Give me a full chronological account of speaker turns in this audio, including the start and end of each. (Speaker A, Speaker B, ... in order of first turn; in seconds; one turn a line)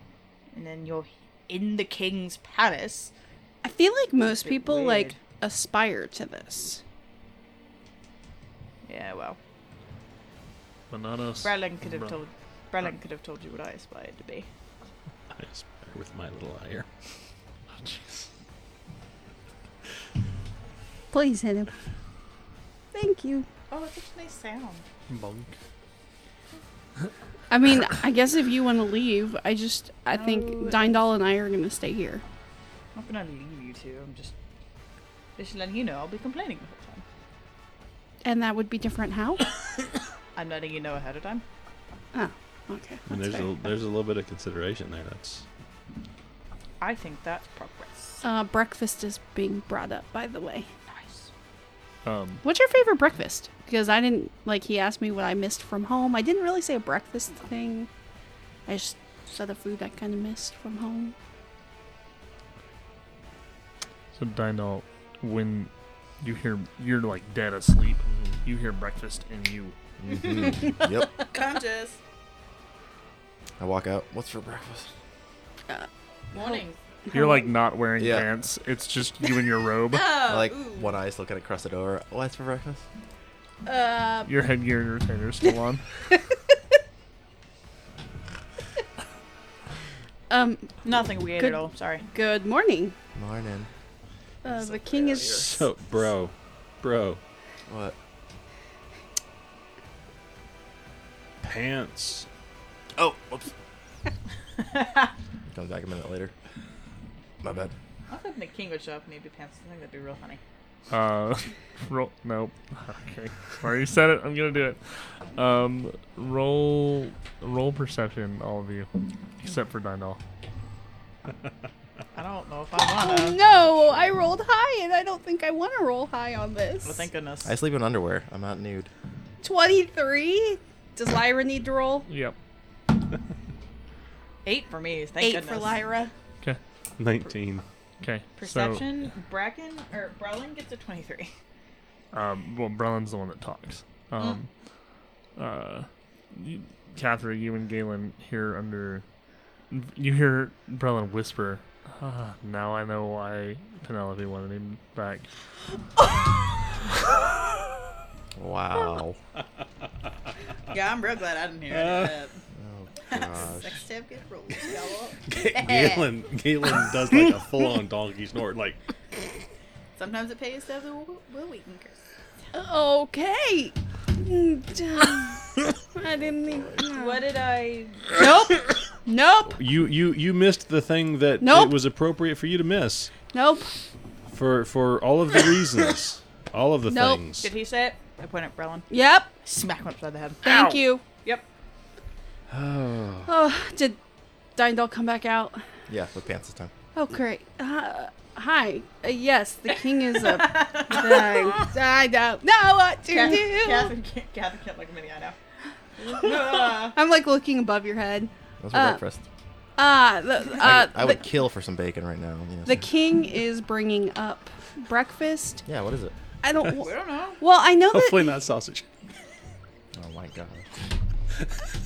Speaker A: 0.5-3.1
Speaker B: 3.6-6.8
Speaker A: 4.2-5.2
Speaker A: 8.8-9.4
Speaker C: 10.9-12.2
Speaker A: 11.4-14.5
Speaker D: 15.3-16.9
Speaker C: 17.7-18.3
Speaker B: 21.1-21.7
Speaker B: 22.9-23.5
Speaker A: 23.7-24.9
Speaker C: 25.1-25.6
Speaker B: 27.5-32.2
Speaker A: 30.1-30.9
Speaker A: 32.9-34.3
Speaker A: 35.4-37.0
Speaker B: 38.2-39.5
Speaker A: 40.3-41.4
Speaker B: 42.1-43.4
Speaker D: 43.1-45.4
Speaker A: 46.8-48.2
Speaker B: 48.2-50.7
Speaker A: 50.9-51.3
Speaker C: 52.0-52.4
Speaker B: 52.4-57.9
Speaker B: 58.7-61.1
Speaker C: 64.1-69.8
Speaker E: 70.0-71.2
Speaker A: 71.2-72.0
Speaker E: 73.6-74.9
Speaker A: 76.3-76.8
Speaker B: 77.1-77.4
Speaker C: 77.1-80.2
Speaker E: 78.0-78.3
Speaker A: 79.9-80.9
Speaker E: 80.2-82.8
Speaker B: 83.6-84.3
Speaker C: 84.2-85.8
Speaker B: 90.3-91.6
Speaker A: 90.8-92.0
Speaker B: 92.1-92.9
Speaker E: 93.1-93.7
Speaker B: 94.4-95.6
Speaker D: 95.3-97.2
Speaker E: 97.7-98.0
Speaker D: 101.4-102.3
Speaker E: 103.0-103.5
Speaker A: 104.6-105.1
Speaker E: 105.5-106.3
Speaker E: 107.4-107.7
Speaker A: 108.1-110.4
Speaker C: 110.9-120.2
Speaker A: 122.1-123.4
Speaker B: 123.0-127.1
Speaker A: 126.8-127.5
Speaker E: 127.4-128.9
Speaker B: 129.4-132.1
Speaker C: 132.1-132.3
Speaker A: 134.4-135.8
Speaker B: 135.2-136.1
Speaker D: 137.0-137.6
Speaker C: 138.0-139.0
Speaker A: 138.4-141.3
Speaker C: 142.1-144.5
Speaker C: 145.4-149.0
Speaker C: 149.7-155.3
Speaker E: 158.3-159.2
Speaker A: 160.7-162.4
Speaker D: 161.7-162.1
Speaker E: 162.6-163.8
Speaker A: 163.1-166.1
Speaker D: 165.3-168.8
Speaker A: 169.9-172.0
Speaker B: 172.5-177.2
Speaker A: 176.9-178.6
Speaker B: 178.1-178.5
Speaker B: 179.0-179.6
Speaker D: 179.5-183.1
Speaker B: 181.4-181.7
Speaker B: 183.3-183.7
Speaker D: 184.3-187.5
Speaker B: 186.9-187.2
Speaker A: 187.4-188.9
Speaker B: 188.9-189.3
Speaker A: 189.4-191.4
Speaker B: 190.4-191.0
Speaker E: 192.5-193.3
Speaker B: 193.2-194.0
Speaker B: 194.6-195.6
Speaker E: 195.9-196.7
Speaker B: 196.9-203.9
Speaker A: 200.2-201.7
Speaker A: 203.1-205.4
Speaker A: 206.0-207.0
Speaker B: 206.2-209.0
Speaker E: 208.6-209.2
Speaker B: 209.8-211.3
Speaker E: 210.6-212.9
Speaker B: 212.7-215.6
Speaker E: 215.7-216.1
Speaker B: 216.4-218.4
Speaker A: 216.7-217.4
Speaker D: 217.9-218.8
Speaker E: 219.9-220.7